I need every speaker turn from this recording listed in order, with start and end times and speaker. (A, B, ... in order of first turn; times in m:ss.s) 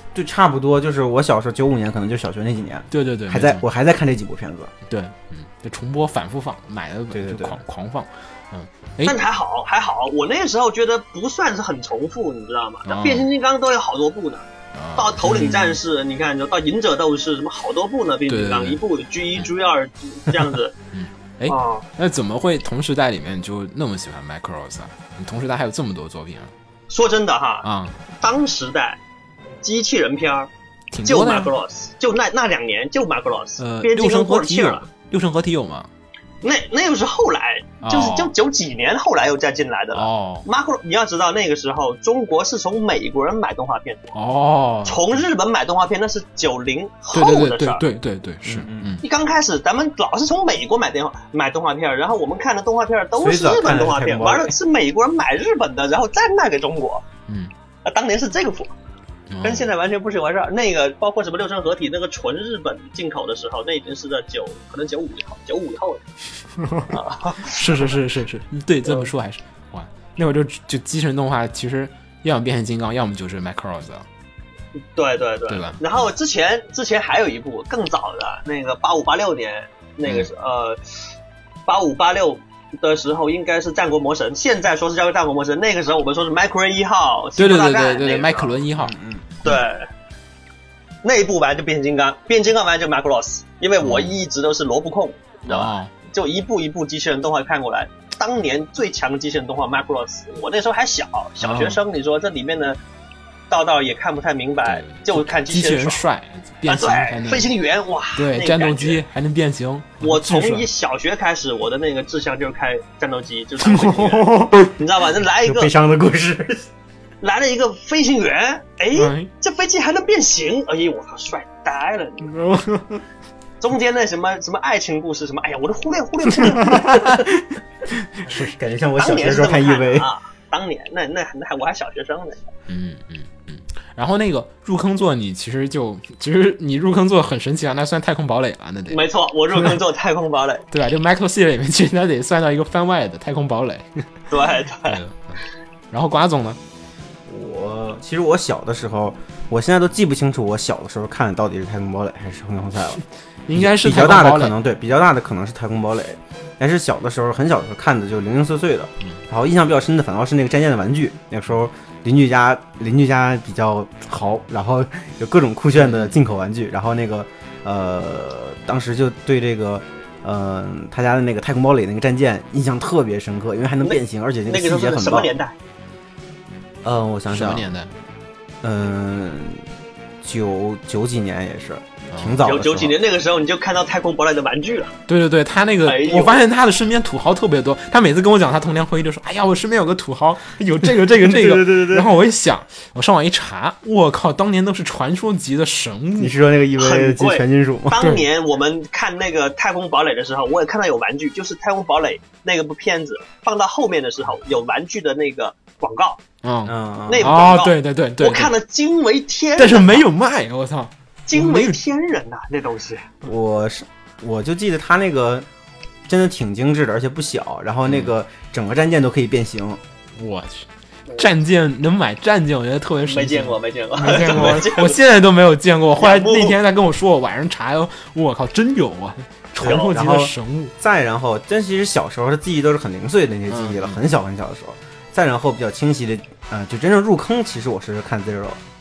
0:00.1-0:04.7 A
0:02.9-0:03.6 B
0:04.9-0:09.2 B
0:07.1-0:07.6 A
0:09.0-0:14.4 C
0:12.8-0:13.3 B
0:14.7-0:15.8 B
0:15.0-0:20.7 C
0:18.3-0:18.8 B
0:20.3-0:26.5 B
0:21.4-0:21.8 C
0:26.9-0:27.7 C
0:27.6-0:28.0 B
0:28.2-0:29.0 C
0:29.6-0:30.5 C
0:30.9-0:31.5 B
0:31.0-0:34.8 C
0:33.6-0:35.9 B
0:36.4-0:44.2 C
0:37.8-0:38.3 B
0:39.9-0:40.4 B
0:44.1-0:45.2 B
0:44.8-0:47.8 C
0:47.1-0:49.0 B
0:48.4-0:49.0 A
0:49.0-0:57.0 C
0:53.2-0:54.6 A
0:57.8-0:58.7 C
0:59.3-0:59.7 B
0:59.4-1:06.0 C
1:06.6-1:14.0 B
1:06.9-1:07.9 C
1:14.9-1:21.0 C
1:15.5-1:16.0 B
1:20.0-1:20.3 B
1:21.6-1:28.5 C
1:27.4-1:29.6 B
1:28.8-1:29.4 A
1:29.4-1:29.9 C
1:31.0-1:42.8 C
1:33.8-1:34.2 B
1:35.5-1:35.9 B
1:41.4-1:41.8 B
1:43.5-1:46.0 C
1:44.6-1:47.5 B
1:46.6-1:49.0 C
1:48.2-1:50.7 B
1:50.0-1:55.7 C
1:53.6-1:54.7 B
1:55.4-1:56.6 A
1:57.2-2:02.4 C
1:58.9-1:59.3 B
2:02.4-2:03.0 B
2:03.6-2:06.9 C
2:06.4-2:07.3 B
2:06.6-2:07.2 A
2:08.2-2:08.5 B
2:08.3-2:10.1 A
2:09.0-2:12.5 C
2:12.7-2:19.0 B
2:18.9-2:20.6 C
2:20.7-2:24.3 B
2:24.3-2:25.0 C
2:24.8-2:26.6 B
2:27.2-2:55.3 A
2:33.5-2:34.6 B
2:45.8-2:46.2 B
2:53.8-2:55.5 C
2:56.8-2:57.7 A
2:57.3-2:57.9 B
2:58.6-2:59.7 A
3:00.2-3:03.0 A
3:02.1-3:02.4 B
3:02.4-3:04.9 C
3:05.1-3:16.4 B
3:05.8-3:06.4 C
3:11.1-3:12.1 A
3:16.2-3:18.0 A
3:16.8-3:26.2 C
3:18.0-3:18.2 B
3:26.4-3:28.5 B
3:26.6-3:27.3 A
3:27.1-3:30.0 C
3:29.6-3:31.8 B
3:31.3-3:33.1 C
3:33.2-3:35.4 A
3:36.1-3:39.8 A
3:37.8-3:38.1 B
3:40.2-3:50.7 B
3:43.0-3:45.0 C
3:46.0-3:46.6 C
3:49.6-3:58.6 A
3:49.6-3:49.9 C
3:53.5-3:54.0 B